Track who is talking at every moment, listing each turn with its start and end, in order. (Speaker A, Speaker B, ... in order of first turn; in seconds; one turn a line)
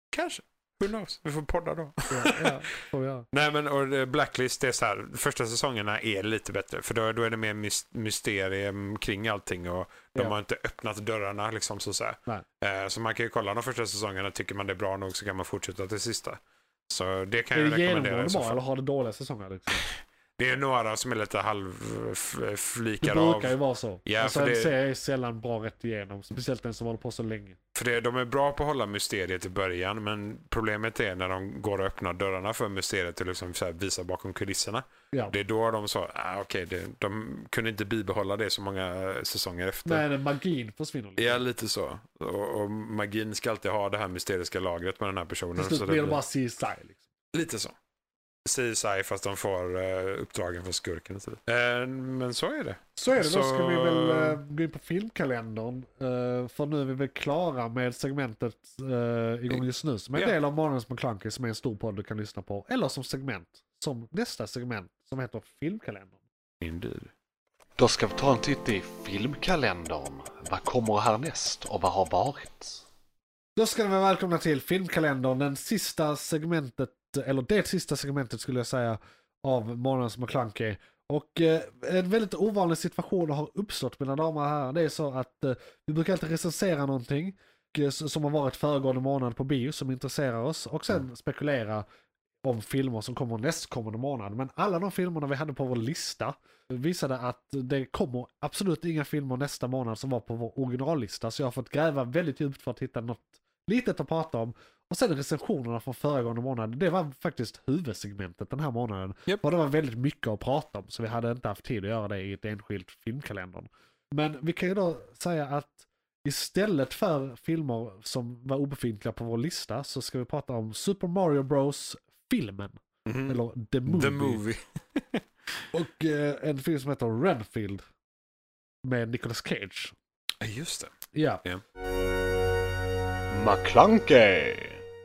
Speaker A: 0.1-2.6
Speaker B: 2.1-3.3
Speaker A: 3.3-18.6
Speaker B: 17.5-19.9
Speaker A: 19.9-24.7
Speaker B: 23.0-27.6
Speaker A: 27.7-40.0
Speaker B: 39.9-41.4
Speaker A: 41.2-46.2
Speaker B: 45.5-47.0
Speaker A: 47.3-47.7
Speaker A: 48.4-54.4
Speaker B: 53.0-66.2
Speaker A: 66.6-67.1
Speaker C: 67.8-72.8
Speaker B: 73.5-91.8
Speaker B: 92.4-124.4
Speaker A: 123.0-125.2
Speaker B: 125.7-127.8
Speaker B: 128.8-129.9
Speaker A: 130.4-131.6
Speaker B: 131.1-131.4
Speaker C: 133.3-134.8